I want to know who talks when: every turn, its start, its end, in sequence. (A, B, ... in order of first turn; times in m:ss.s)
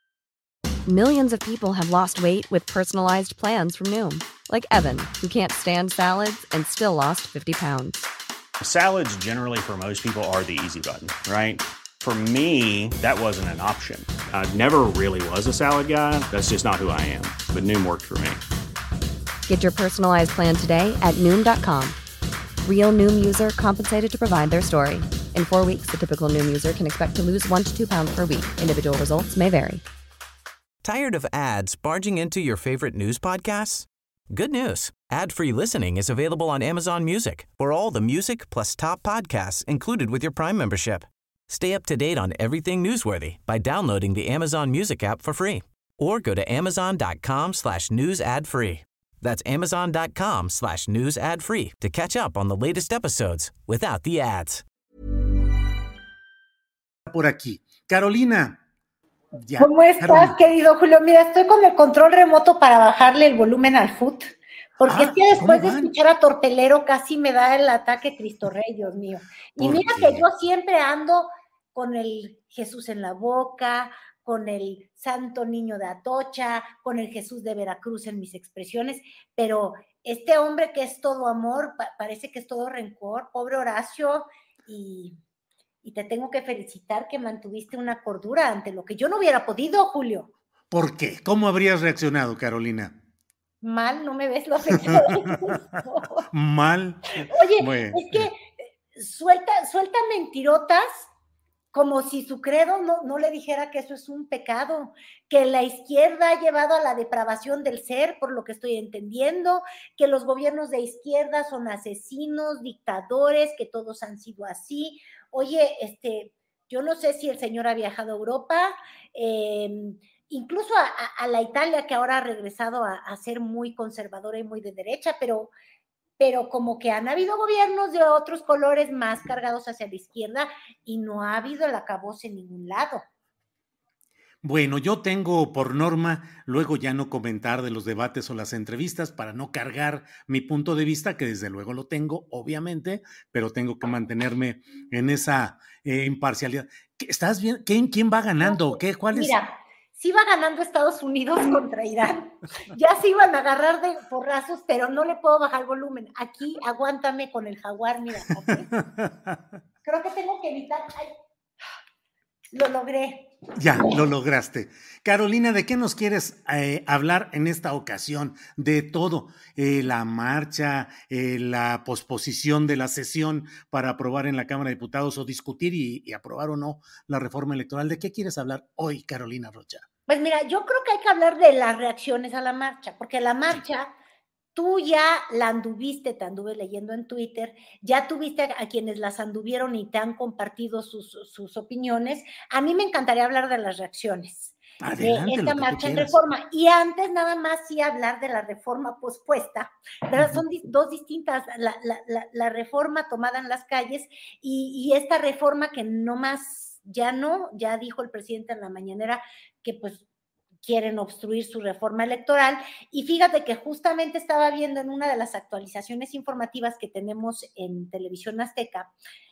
0:00.8-0:08.1 A
0:08.6-0:18.4 B
0:19.5-0:22.0 A
0:22.6-0:29.8 A
0:30.8-0:54.6 C
0:57.0-0:58.6 D
0:59.3-1:00.4 D
0:59.6-1:25.2 E
1:04.8-1:05.9 D
1:09.6-1:10.3 D
1:25.8-1:30.3 E
1:30.7-1:33.0 D
1:33.6-1:36.2 E
1:34.7-1:35.5 D
1:36.3-1:38.3 D
1:37.3-1:41.1 E
1:41.7-2:05.5 E
2:06.2-2:13.0 E
2:14.4-2:29.4 D
2:28.4-2:38.7 E
2:38.8-2:39.4 D
2:39.8-2:41.1 E
2:42.5-2:43.8 E
2:43.6-2:59.8 D
3:00.1-3:03.9 E
3:04.5-3:30.0 E
3:14.8-3:16.2 D
3:20.2-3:20.4 D
3:30.6-3:38.9 E